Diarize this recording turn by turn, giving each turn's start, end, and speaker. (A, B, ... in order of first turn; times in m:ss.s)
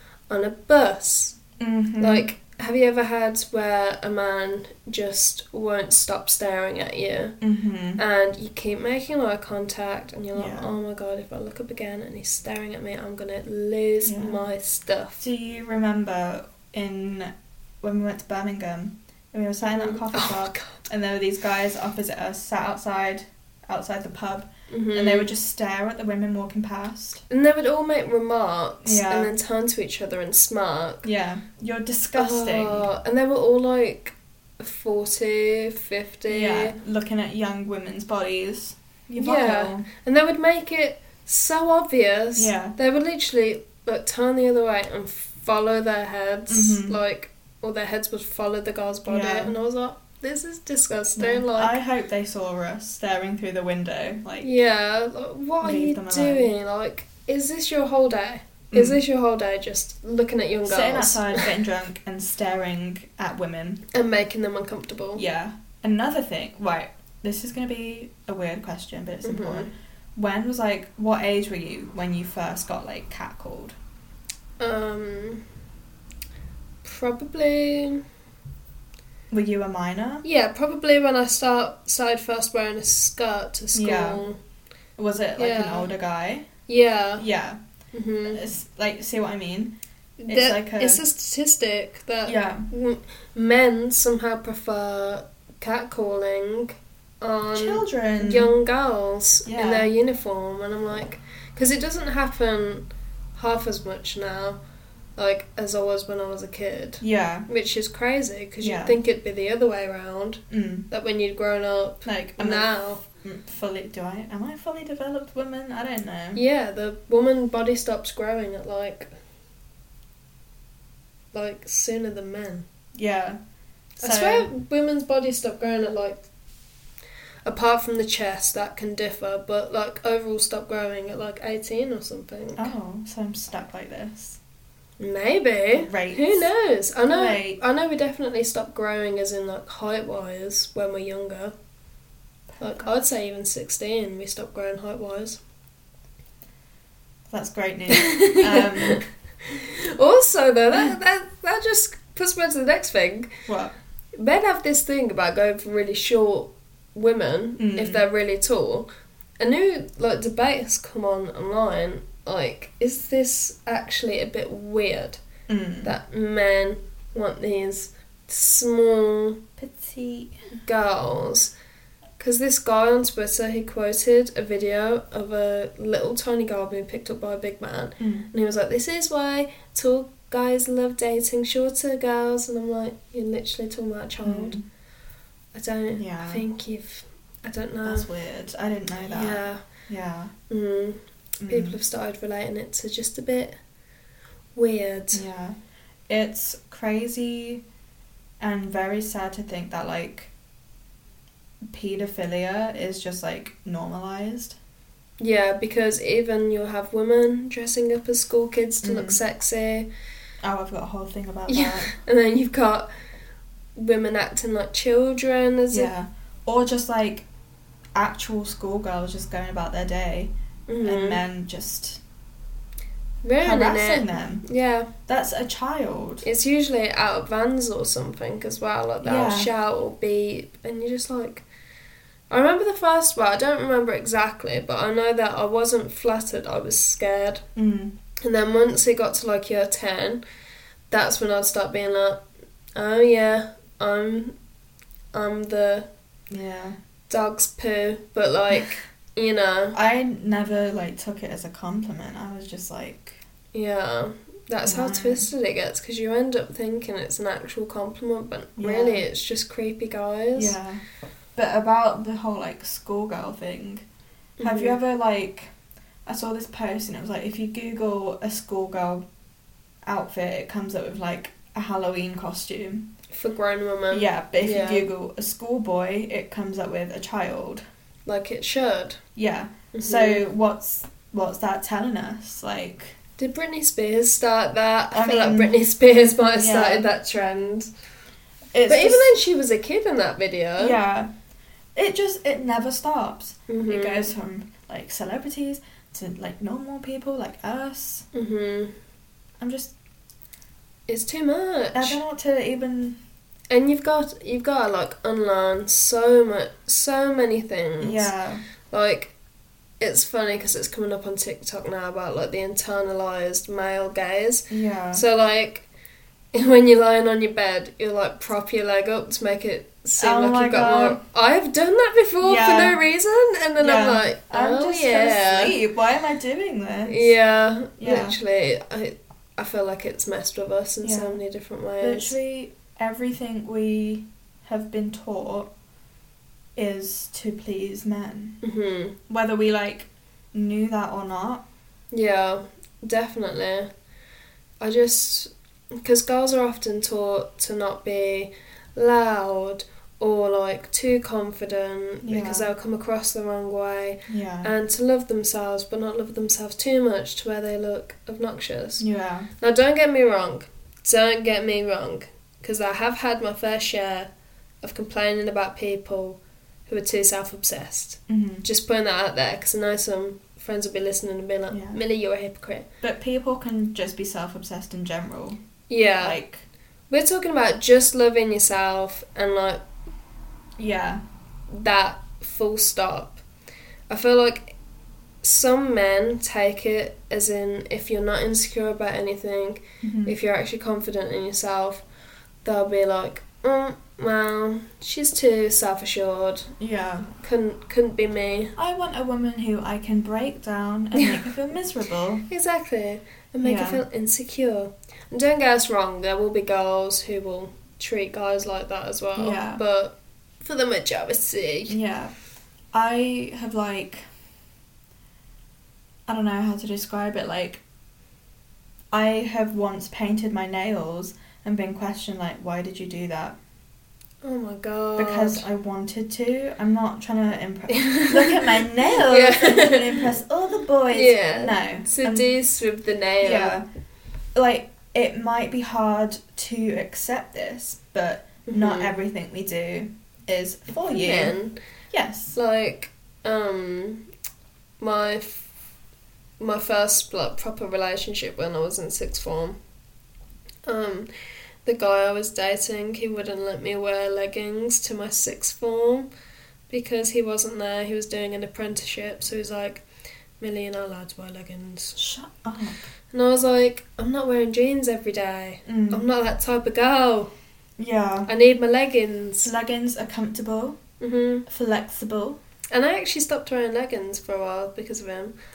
0:00.3-0:01.4 A
0:01.6-0:02.3 B
0:02.0-0:07.4 A
0:07.4-0:08.0 B
0:08.0-0:15.2 A
0:10.3-0:10.8 B
0:14.0-0:14.4 B
0:15.2-0:27.2 B
0:19.7-0:20.8 A
0:24.7-0:25.3 A
0:27.3-0:31.0 A
0:28.8-0:29.3 B
0:31.0-0:32.9 B
0:32.2-0:36.8 A
0:36.3-0:39.9 B
0:39.2-0:51.8 A
0:42.4-0:42.8 B
0:46.5-0:47.0 B
0:49.1-0:49.5 B
0:51.2-0:54.5 B
0:54.4-1:01.4 A
0:55.6-0:56.5 B
0:58.7-0:59.0 B
1:00.6-1:03.8 B
1:03.9-1:05.2 A
1:05.2-1:13.7 B
1:09.2-1:09.7 A
1:14.6-1:15.4 A
1:16.8-1:18.0 A
1:19.3-1:20.2 B
1:20.2-1:24.4 A
1:23.7-1:24.2 B
1:25.0-1:26.5 B
1:25.4-1:25.9 A
1:26.7-1:27.2 A
1:27.2-1:27.6 B
1:27.9-1:28.4 A
1:28.3-1:29.8 B
1:30.2-1:44.6 A
1:30.3-1:31.0 B
1:32.2-1:32.7 B
1:37.5-1:38.5 B
1:39.4-1:39.9 B
1:45.2-1:53.0 A
1:47.0-1:47.5 B
1:48.6-1:49.0 B
1:50.5-1:50.9 B
1:52.0-1:56.4 B
1:56.3-1:59.1 A
2:01.3-2:02.6 A
2:02.9-2:03.4 B
2:04.0-2:06.2 A
2:04.0-2:04.5 B
2:07.4-2:12.7 A
2:12.6-2:14.4 B
2:15.0-2:21.5 A
2:15.7-2:16.5 B
2:17.0-2:17.6 B
2:22.5-2:22.9 B
2:22.6-2:25.4 A
2:27.3-2:29.0 B
2:27.9-2:33.3 A
2:33.5-2:33.7 B
2:34.2-2:38.9 A
2:37.6-2:38.0 B
2:39.4-2:45.2 A
2:45.5-2:45.9 B
2:45.8-2:49.4 A
2:49.6-2:50.4 B
2:50.6-2:51.5 A
2:52.2-3:04.6 A
2:58.0-2:58.3 B
3:04.2-3:04.6 B
3:05.5-3:08.1 A
3:05.9-3:06.4 B
3:07.8-3:10.3 B
3:09.1-3:09.6 A
3:10.5-3:13.6 A
3:11.4-3:11.8 B
3:14.5-3:15.2 A
3:15.1-3:15.6 B
3:16.1-3:17.6 B
3:18.4-3:20.3 B
3:21.7-3:24.6 B
3:25.2-3:29.9 A
3:28.8-3:29.2 B
3:30.4-3:31.9 B
3:31.5-3:32.9 A
3:33.8-3:35.9 A
3:35.7-3:37.2 B
3:37.9-3:40.3 B
3:40.7-3:41.2 A
3:40.8-3:42.0 B
3:43.2-3:44.9 A
3:43.4-3:44.4 B
3:45.1-3:46.2 B
3:46.2-3:51.4 A
3:49.0-3:49.5 B
3:52.3-3:57.4 A
3:57.6-3:57.9 B
3:58.2-4:00.2 A
4:00.9-4:02.2 A
4:02.7-4:04.3 A
4:05.1-4:05.9 A
4:06.3-4:06.8 B
4:07.1-4:09.8 A
4:09.7-4:13.2 B
4:13.5-4:20.6 A
4:14.6-4:15.3 B
4:18.6-4:19.0 B
4:20.3-4:20.8 B
4:21.3-4:23.8 B
4:24.4-4:24.8 A
4:24.4-4:25.5 B
4:26.0-4:29.0 B
4:29.8-4:32.9 B
4:33.1-4:34.9 A
4:33.9-4:37.6 B
4:38.0-4:39.0 A
4:39.1-4:43.0 B
4:39.7-4:40.2 A
4:43.2-4:47.7 A
4:44.9-4:45.6 B
4:46.4-4:46.9 B
4:48.5-4:49.1 B
4:48.7-4:50.8 A
4:50.6-4:51.1 B
4:51.7-4:58.1 B
4:53.5-4:54.1 A
4:58.1-4:58.7 A
4:59.4-4:59.7 B
5:00.9-5:02.0 A
5:01.7-5:03.0 B
5:03.5-5:08.1 A
5:07.8-5:08.4 B
5:08.7-5:09.1 A
5:09.8-5:15.6 A
5:14.5-5:15.0 B
5:16.3-5:25.5 A
5:20.0-5:21.0 B
5:22.2-5:22.8 B
5:23.6-5:27.1 B
5:26.9-5:32.2 A
5:27.8-5:28.2 B
5:30.8-5:31.2 B
5:31.8-5:35.5 B
5:36.6-5:38.4 B
5:38.4-5:39.0 A
5:39.1-5:41.4 B
5:41.9-5:43.7 A
5:44.6-5:58.8 A
5:52.0-5:52.5 B
5:54.1-5:54.5 B
5:58.8-5:59.3 B
5:59.4-6:04.1 A
6:04.6-6:12.7 A
6:08.1-6:08.4 B
6:11.5-6:11.8 B
6:12.8-6:15.4 B
6:15.7-6:16.2 A
6:16.0-6:16.4 B
6:16.9-6:19.6 A
6:20.6-6:21.0 B
6:21.5-6:23.2 A
6:23.9-6:24.5 A
6:25.2-6:31.8 A
6:29.8-6:30.2 B
6:32.4-6:36.5 A
6:36.6-6:37.1 B
6:37.2-6:38.5 A
6:38.6-6:42.2 B
6:42.3-6:51.8 A
6:43.4-6:43.8 B
6:49.2-6:49.6 B
6:51.7-6:52.1 B
6:52.7-6:54.0 B
6:56.1-6:57.6 B
6:58.9-7:03.4 B
7:04.2-7:05.4 A
7:05.0-7:12.3 B
7:07.7-7:10.1 A
7:10.9-7:13.6 A
7:13.2-7:13.6 B
7:14.3-7:21.4 B
7:18.5-7:18.9 A
7:20.8-7:21.5 A
7:21.9-7:22.4 B
7:22.3-7:24.0 A
7:24.8-7:25.5 A
7:26.4-7:29.6 A
7:30.6-7:31.1 A
7:31.6-7:36.1 A
7:36.7-7:39.8 A
7:40.4-7:42.0 A
7:42.0-7:42.9 B
7:43.1-7:47.3 A
7:45.6-7:46.0 B
7:47.8-7:48.3 B
7:48.3-7:49.5 A
7:49.4-7:50.8 B
7:51.0-7:51.4 A
7:51.5-7:52.4 B
7:52.7-7:55.3 A